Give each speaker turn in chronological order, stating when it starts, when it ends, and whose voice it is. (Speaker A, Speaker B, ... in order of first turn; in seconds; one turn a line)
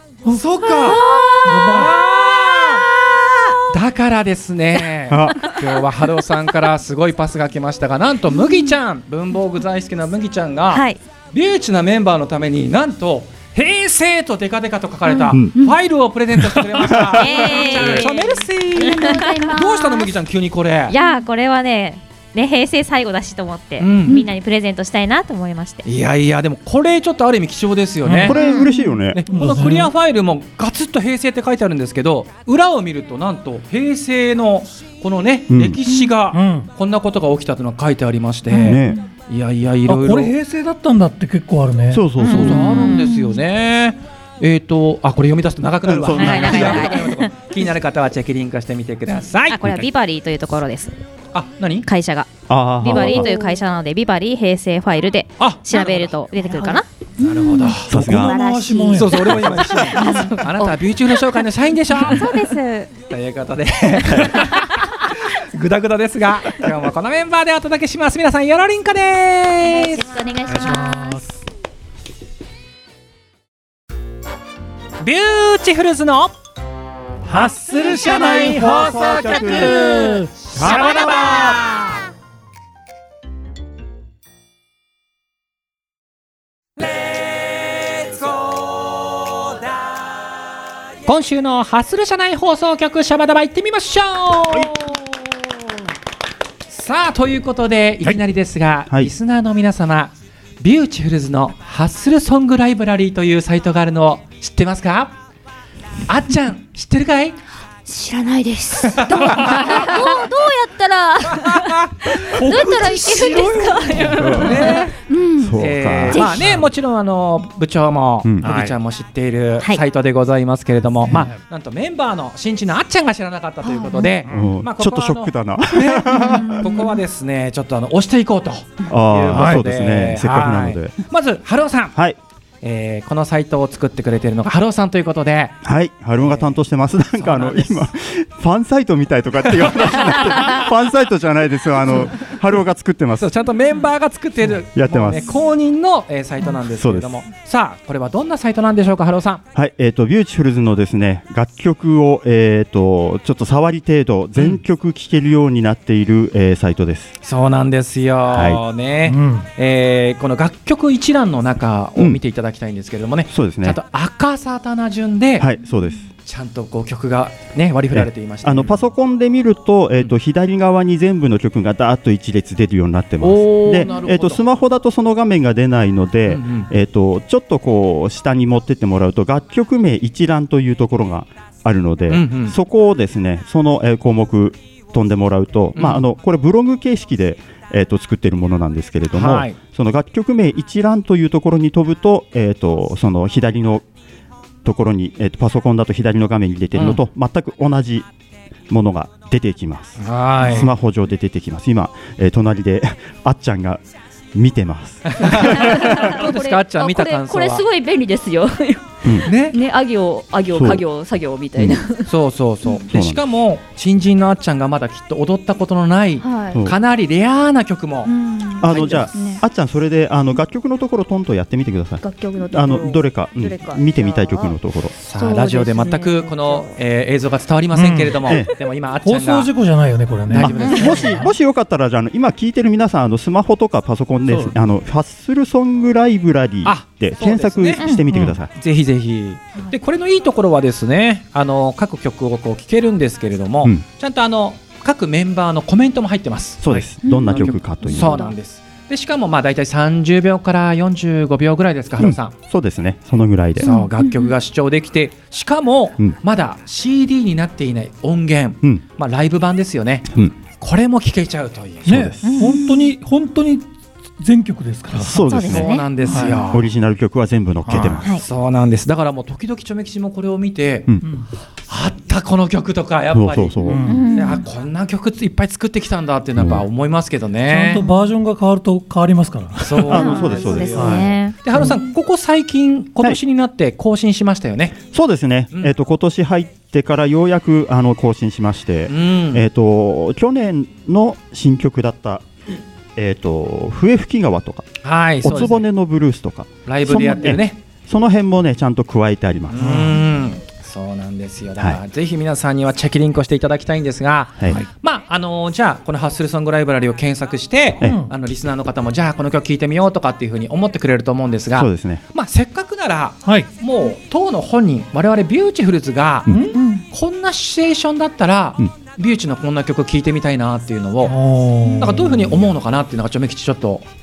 Speaker A: 0.2-21.0
Speaker B: 0.7-1.7
Speaker C: 1.4-2.0
Speaker D: 5.1-5.6
Speaker E: 10.7-11.0
Speaker C: 16.4-17.0
Speaker E: 17.1-19.2
Speaker B: 18.8-20.1
Speaker E: 20.9-25.8
Speaker A: 23.8-24.2
Speaker A: 25.8-28.4
Speaker C: 28.1-28.4
Speaker D: 28.2-29.2
Speaker B: 28.4-28.9
Speaker A: 29.1-40.3
Speaker C: 29.3-29.9
Speaker D: 35.5-35.8
Speaker C: 36.3-36.7
Speaker D: 38.5-39.0
Speaker C: 39.9-42.5
Speaker D: 41.9-42.8
Speaker E: 42.2-43.1
Speaker A: 42.2-49.6
Speaker B: 42.8-43.1
Speaker D: 45.8-47.0
Speaker E: 46.1-47.3
Speaker E: 49.5-50.9
Speaker A: 51.3-51.9
Speaker E: 51.9-56.9
Speaker D: 52.5-53.3
Speaker A: 55.4-57.9
Speaker B: 56.5-60.5
Speaker C: 57.9-59.8
Speaker D: 57.9-58.4
Speaker A: 58.9-62.4
Speaker E: 61.9-62.9
Speaker A: 63.1-70.1
Speaker B: 69.7-71.2
Speaker C: 70.5-71.3
Speaker A: 75.0-76.3
Speaker C: 77.2-80.5
Speaker A: 77.9-82.0
Speaker D: 78.0-79.9
Speaker D: 80.5-81.8
Speaker A: 88.1-88.5
Speaker A: 91.0-95.0
Speaker A: 96.7-105.2
Speaker A: 106.1-107.4
Speaker B: 107.9-115.6
Speaker A: 108.8-109.9
Speaker A: 111.3-112.4
Speaker C: 112.3-114.6
Speaker D: 114.1-114.7
Speaker A: 114.1-115.0
Speaker D: 115.4-116.5
Speaker A: 115.5-132.0
Speaker B: 116.1-116.5
Speaker D: 118.2-118.6
Speaker C: 118.4-118.8
Speaker C: 121.1-121.4
Speaker B: 123.7-124.1
Speaker D: 124.3-126.7
Speaker B: 126.2-126.9
Speaker D: 128.9-130.9
Speaker A: 132.6-135.6
Speaker D: 135.6-143.3
Speaker A: 136.2-136.6
Speaker A: 137.1-137.9
Speaker A: 143.2-149.4
Speaker D: 144.7-145.3
Speaker D: 146.6-147.1
Speaker D: 149.5-157.2
Speaker A: 157.2-165.5
Speaker D: 158.3-158.6
Speaker C: 159.1-159.5
Speaker D: 163.3-163.8
Speaker D: 165.4-166.1
Speaker A: 166.2-168.9
Speaker D: 167.9-193.8
Speaker A: 173.2-174.5
Speaker A: 176.3-176.7
Speaker A: 182.1-182.6
Speaker A: 185.8-186.0
Speaker A: 189.1-189.6
Speaker D: 194.6-198.1
Speaker D: 198.7-203.8
Speaker A: 200.0-200.7
Speaker D: 204.3-206.1
Speaker A: 205.1-207.7
Speaker B: 205.5-212.1
Speaker A: 209.2-209.6
Speaker D: 210.5-210.8
Speaker A: 212.1-219.2
Speaker D: 212.9-213.2
Speaker B: 216.2-216.7
Speaker B: 218.1-219.4
Speaker D: 218.6-224.9
Speaker B: 222.0-224.6
Speaker A: 225.1-229.5
Speaker B: 225.1-226.8
Speaker C: 227.7-228.4
Speaker C: 229.0-231.3
Speaker A: 230.3-231.2
Speaker D: 230.3-238.5
Speaker A: 234.3-234.5
Speaker A: 236.6-237.8
Speaker A: 238.5-252.3
Speaker D: 246.6-248.3
Speaker B: 247.0-248.2
Speaker D: 252.0-253.8
Speaker A: 253.6-262.0
Speaker B: 253.6-254.3
Speaker D: 261.9-262.4
Speaker C: 261.9-265.3
Speaker E: 262.2-262.6
Speaker D: 264.9-265.9
Speaker E: 265.2-266.1
Speaker A: 265.5-266.7
Speaker C: 266.0-266.5
Speaker D: 266.5-268.2
Speaker C: 267.7-268.0
Speaker A: 267.8-270.9
Speaker A: 271.7-277.8
Speaker D: 273.1-273.8
Speaker C: 273.6-274.1
Speaker E: 273.9-274.4
Speaker D: 276.4-276.7
Speaker C: 277.4-280.1
Speaker A: 279.6-284.8
Speaker D: 279.8-281.1
Speaker E: 279.9-281.4
Speaker B: 280.1-280.9
Speaker C: 280.7-281.8
Speaker D: 284.9-292.2
Speaker A: 288.9-289.4
Speaker D: 293.0-299.9
Speaker A: 294.8-295.7
Speaker A: 296.6-297.6
Speaker A: 299.5-323.9
Speaker C: 299.6-300.0
Speaker C: 307.8-308.1
Speaker D: 311.5-312.0
Speaker C: 313.2-313.5
Speaker C: 316.3-316.6
Speaker E: 316.6-316.8
Speaker C: 321.1-322.4